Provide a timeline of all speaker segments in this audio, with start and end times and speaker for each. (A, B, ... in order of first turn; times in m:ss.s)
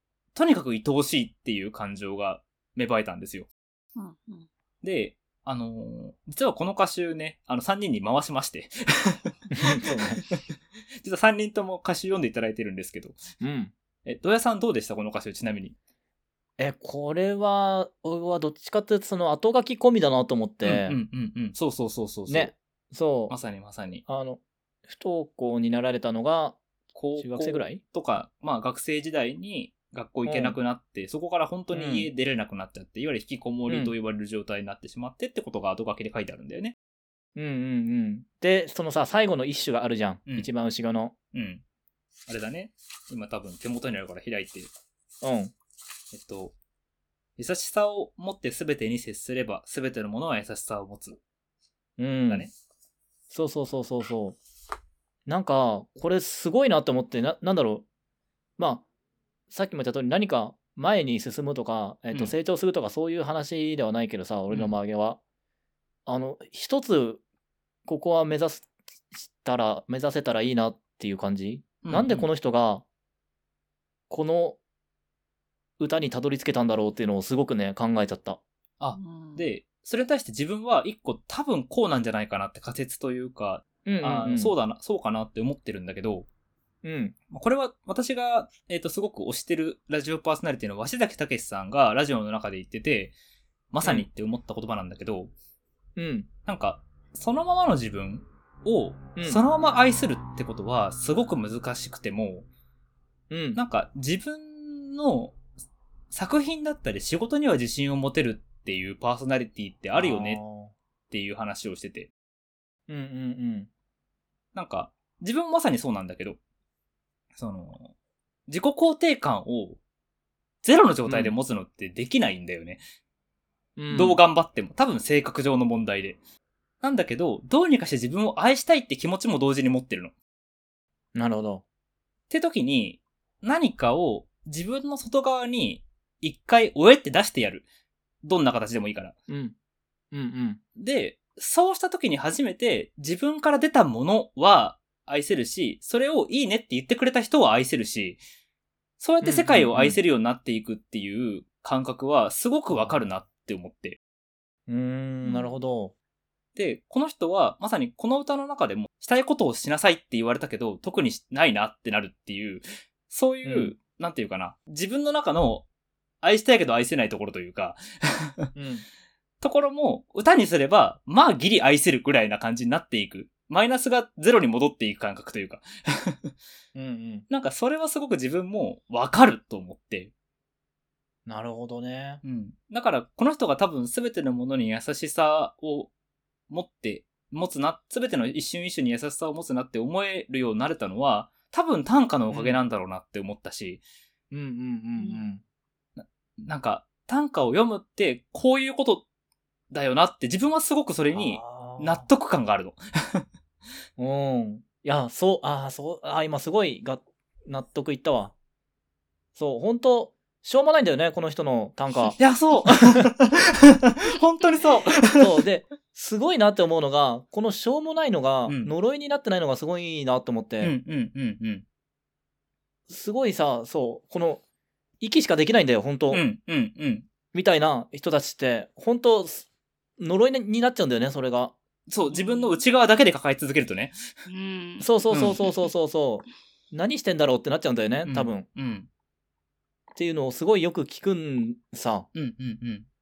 0:00.3-0:03.5 A
0:04.0-0:04.5 B
0:04.8-0:10.4 A
0:09.6-0:10.2 C
0:11.0-0:13.2 A
0:13.4-0:13.7 C
0:14.0-0:15.8 A
0:16.6-0:21.0 C
0:20.6-0:22.5 A
0:22.3-0:23.4 C
0:23.3-0:24.0 A
0:24.0-0:26.6 C
0:26.9-0:36.7 A
0:27.2-0:27.8 C
0:30.2-0:30.6 C
0:31.7-0:32.1 C
0:33.7-0:33.9 C
0:37.4-0:41.1 C
0:41.3-0:41.6 A
0:42.3-0:44.7 A
0:45.2-0:45.5 C
0:46.1-0:46.5 A
0:47.4-0:51.2 A
0:52.0-0:52.5 C
0:53.3-0:54.4 C
0:55.3-0:57.8 C
0:58.6-0:58.8 C
0:59.5-1:05.2 C
1:04.5-1:04.7 A
1:06.0-1:07.2 C
1:07.9-1:12.8 C
1:11.8-1:12.3 A
1:14.1-1:14.6 C
1:15.8-1:18.4 C
1:18.8-1:26.3 A
1:18.9-1:19.5 B
1:23.8-1:24.5 C
1:26.8-1:27.1 C
1:27.3-1:33.1 A
1:33.7-1:35.3 A
1:36.0-1:36.3 C
1:36.4-1:42.5 A
1:39.2-1:39.4 C
1:43.3-1:43.6 C
1:43.5-1:45.4 A
1:46.1-1:50.4 A
1:50.0-1:50.7 C
1:51.1-1:52.1 A
1:52.9-1:53.7 C
1:54.5-1:56.4 A
1:57.4-1:57.9 A
1:58.5-1:59.8 A
2:00.6-2:02.8 A
2:01.1-2:01.3 C
2:03.8-2:04.2 C
2:03.9-2:06.2 A
2:06.8-2:10.1 A
2:11.1-2:11.6 C
2:12.3-2:17.6 A
2:18.2-2:19.1 A
2:19.3-2:19.5 C
2:20.1-2:20.6 C
2:20.8-2:28.2 A
2:29.0-2:34.0 A
2:29.2-2:30.0 C
2:32.7-2:33.0 C
2:34.7-2:35.9 C
2:35.2-2:35.6 B
2:36.5-2:45.6 A
2:43.4-2:43.7 C
2:46.2-2:48.5 A
2:48.5-2:48.8 C
2:49.4-2:56.3 A
2:56.7-2:57.2 C
2:57.3-3:00.1 A
3:01.2-3:02.2 C
3:02.2-3:05.9 A
3:06.5-3:13.8 A
3:12.3-3:12.6 C
3:14.3-3:15.4 C
3:15.0-3:15.3 B
3:16.0-3:19.0 A
3:19.7-3:23.2 A
3:21.1-3:22.1 C
3:24.0-3:28.3 C
3:29.3-3:32.2 C
3:32.2-3:35.3 A
3:35.1-3:40.7 C
3:38.4-3:38.7 A
3:40.6-3:41.6 A
3:42.9-3:44.4 C
3:45.0-3:46.2 C
3:46.1-3:47.1 A
3:47.3-3:49.5 C
3:50.0-3:51.5 C
3:51.9-3:54.0 A
3:52.1-3:52.6 B
3:54.3-3:55.6 B
3:54.8-3:58.4 C
3:55.1-3:55.4 A
3:58.0-3:58.9 A
3:59.9-4:02.1 C
4:02.1-4:02.9 A